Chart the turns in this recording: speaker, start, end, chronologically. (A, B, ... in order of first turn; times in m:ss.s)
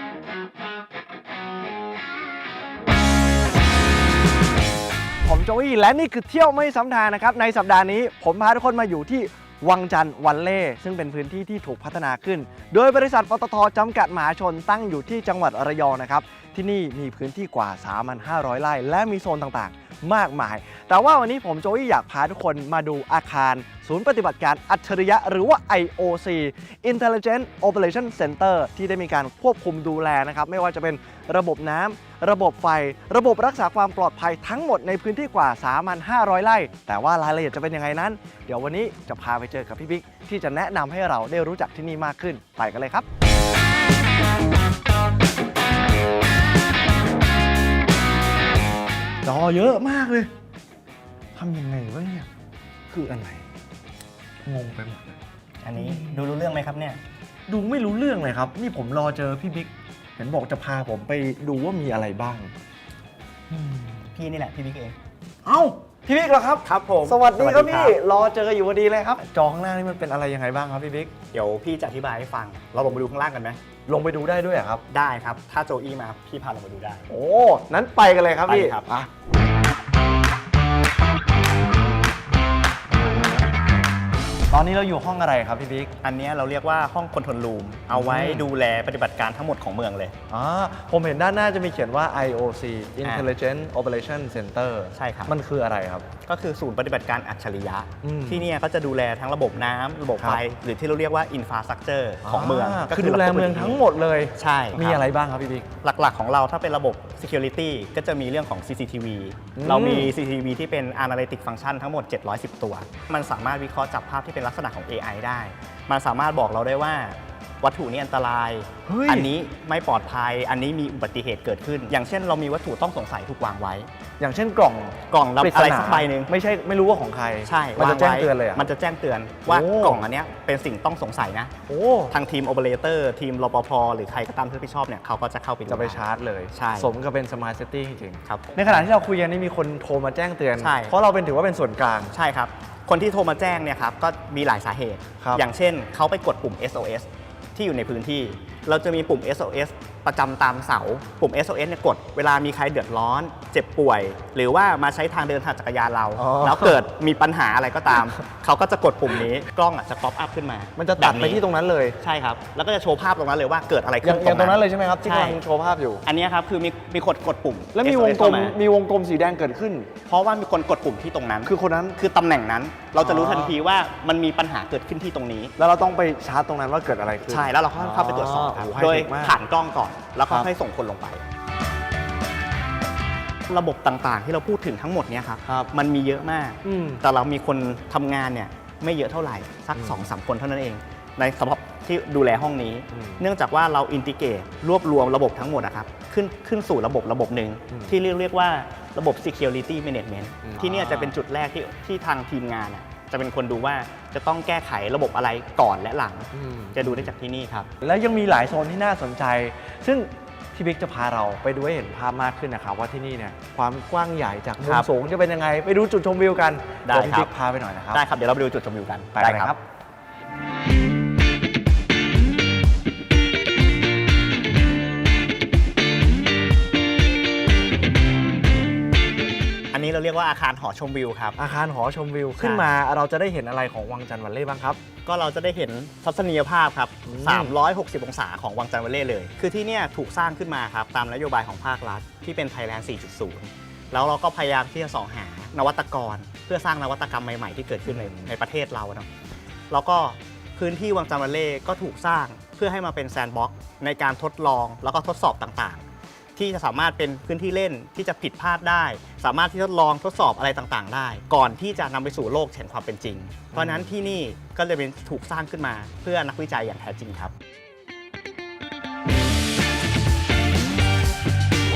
0:05.2-0:43.0 A
0:49.2-0:50.3 A
0:51.3-0:52.3 A
0:52.9-0:53.4 A
0:54.4-0:55.2 A
0:55.6-0:57.0 B
0:55.7-0:56.2 A
0:57.5-1:02.5 A
1:03.5-1:04.0 A
1:04.1-1:05.0 B
1:05.4-1:11.1 A
1:06.6-1:08.0 B
1:11.3-1:13.6 B
1:13.9-1:14.8 A
1:14.9-1:17.0 B
1:17.1-1:19.1 A
1:18.5-1:18.9 B
1:24.5-1:25.9 A
1:26.0-1:30.1 B
1:27.9-1:28.4 A
1:30.3-1:36.0 A
1:33.0-1:33.3 B
1:34.9-1:35.4 B
1:36.2-1:43.8 B
1:38.0-1:38.4 A
1:42.2-1:45.6 A
1:44.4-1:45.1 B
1:45.8-2:03.9 B
1:49.6-1:50.1 A
1:58.8-1:59.3 A
2:04.2-2:08.7 A
2:05.1-2:06.3 B
2:07.4-2:11.5 B
2:09.5-2:10.0 A
2:11.7-2:12.1 A
2:12.1-2:16.9 B
2:15.7-2:22.1 A
2:18.2-2:18.9 B
2:20.6-2:20.9 B
2:22.1-2:41.4 B
2:36.2-2:36.8 A
2:40.8-2:42.0 A
2:42.0-2:45.4 B
2:44.0-2:46.0 A
2:46.0-2:48.6 B
2:47.7-2:49.9 A
2:50.0-2:55.5 B
2:51.4-2:52.0 A
2:53.0-2:53.6 A
2:55.6-2:59.4 A
2:57.3-3:01.2 B
3:03.5-3:27.7 B
3:05.4-3:05.8 A
3:06.6-3:07.0 A
3:09.8-3:10.0 A
3:12.9-3:13.2 A
3:17.7-3:18.0 A
3:20.4-3:21.2 A
3:26.3-3:27.1 A
3:27.8-3:38.0 A
3:34.6-3:34.9 B
3:36.8-3:37.3 B
3:37.9-3:39.5 B
3:39.1-3:39.6 A
3:49.7-3:51.4 B
3:51.4-3:54.8 A
3:52.4-3:52.7 B
3:55.0-4:09.1 B
3:57.1-3:57.5 A
4:07.8-4:08.3 A
4:09.7-4:15.8 B
4:16.4-4:27.3 B
4:23.5-4:23.9 A